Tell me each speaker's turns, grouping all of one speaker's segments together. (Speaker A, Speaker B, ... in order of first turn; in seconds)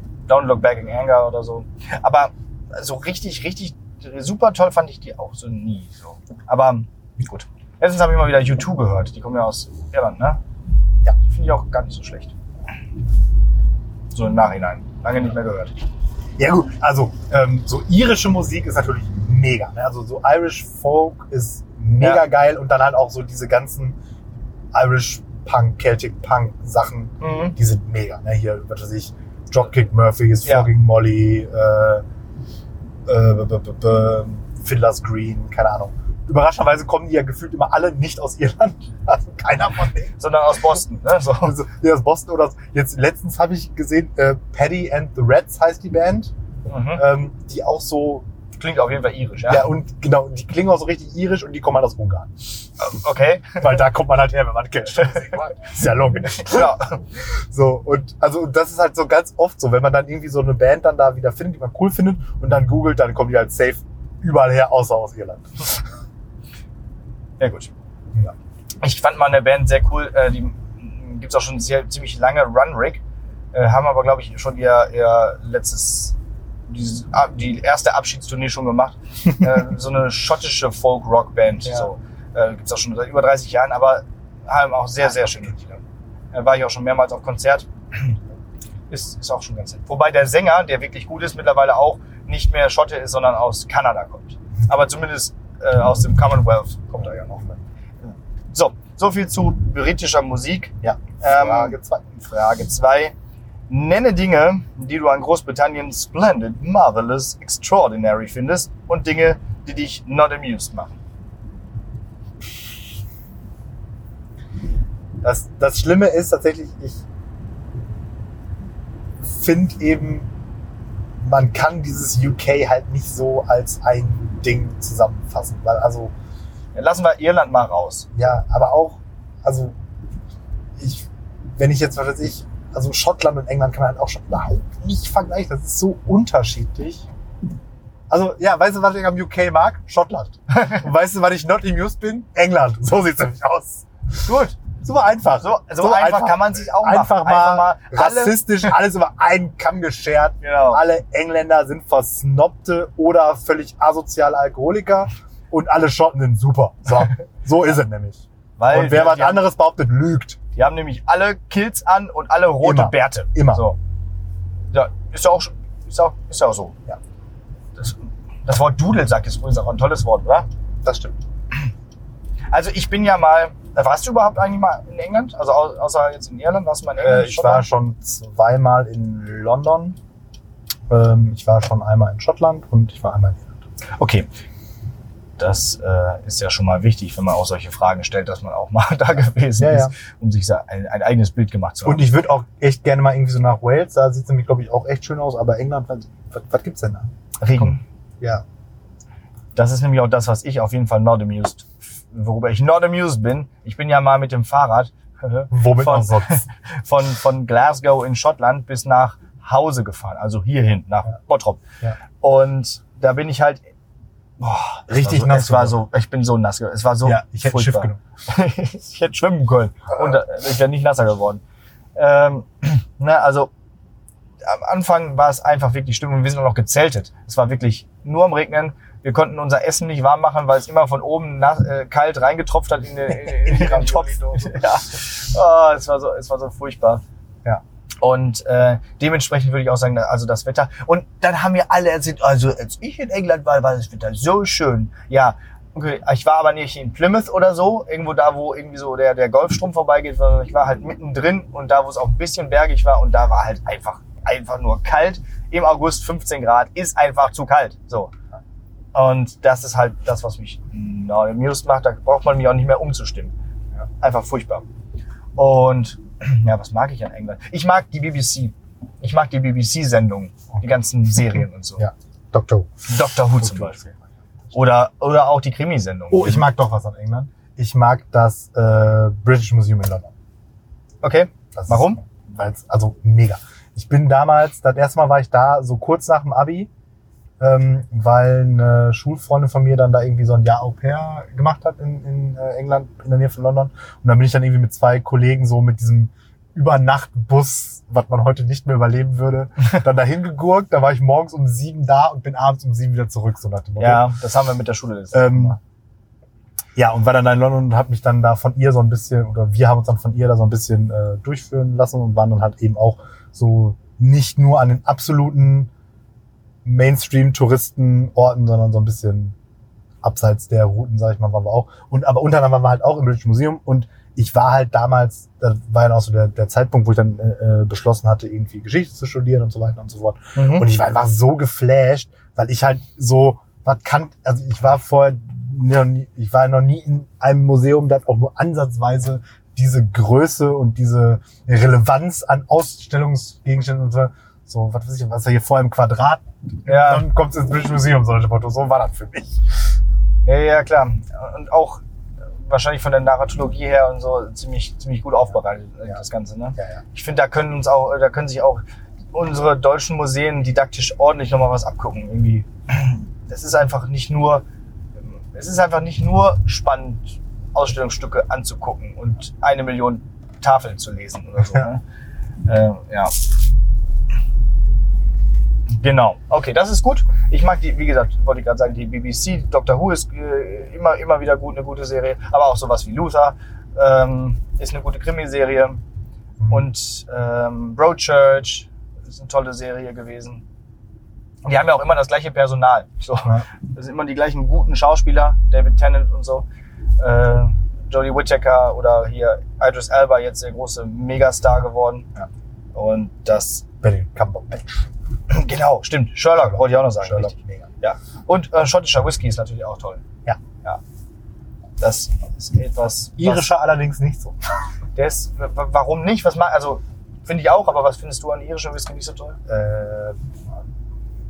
Speaker A: 0.3-10.4, 11.2-12.3, 14.1-15.8, 27.2-27.6, 30.4-30.7, 40.2-41.5, 46.7-47.0, 48.6-49.7, 52.8-53.7, 56.4-57.0, 67.4-67.7, 68.8-73.0, 73.5-76.2, 76.7-88.2, 88.9-103.1, 103.7-111.0, 126.7-128.1, 144.2-144.6, 145.4-148.7, 150.4-150.8, 158.6-159.4, 160.5-163.8, 164.7-166.7, 167.8-170.5, 172.5-177.7, 184.0-184.3, 185.4-192.1, 197.4-197.8, 199.5-211.6, 212.2-213.6, 214.4-221.4, 221.9-223.5, 224.4-237.0, 238.0-258.1, 258.9-263.3, 264.0-264.6, 265.4-271.8, 272.9-273.8, 274.5-276.5, 281.0-282.0, 303.8-305.6, 330.4-330.7, 346.7-347.1, 350.2-351.8, 352.4-364.4, 365.0-371.8, 372.4-373.1, 375.7-385.8, 386.5-390.4, 391.4-396.4, 397.0-402.1, 402.7-403.6, 405.3-410.0, 411.8-413.5, 414.9-419.4
Speaker B: 16.4-24.0, 24.7-32.0, 33.1-40.1, 41.4-46.3, 46.9-48.2, 49.5-52.3, 53.6-65.8, 100.8-102.0, 115.2-117.0, 119.2-120.3, 121.2-126.1, 128.1-129.8, 130.8-137.1, 138.1-143.8, 144.8-160.4, 162.6-163.7, 170.8-171.2, 177.0-180.0, 180.9-183.6, 189.6-189.9, 191.8-198.4, 205.5-206.4, 214.9-215.8, 217.0-218.0, 233.1-234.7, 271.8-274.0, 276.1-280.1, 281.5-286.7, 287.4-304.1, 305.1-305.6, 306.8-315.7, 316.6-319.3, 320.0-349.4, 356.6-356.8, 386.4-386.7, 403.8-404.8, 406.4-407.7, 413.2-414.4, 419.5-420.2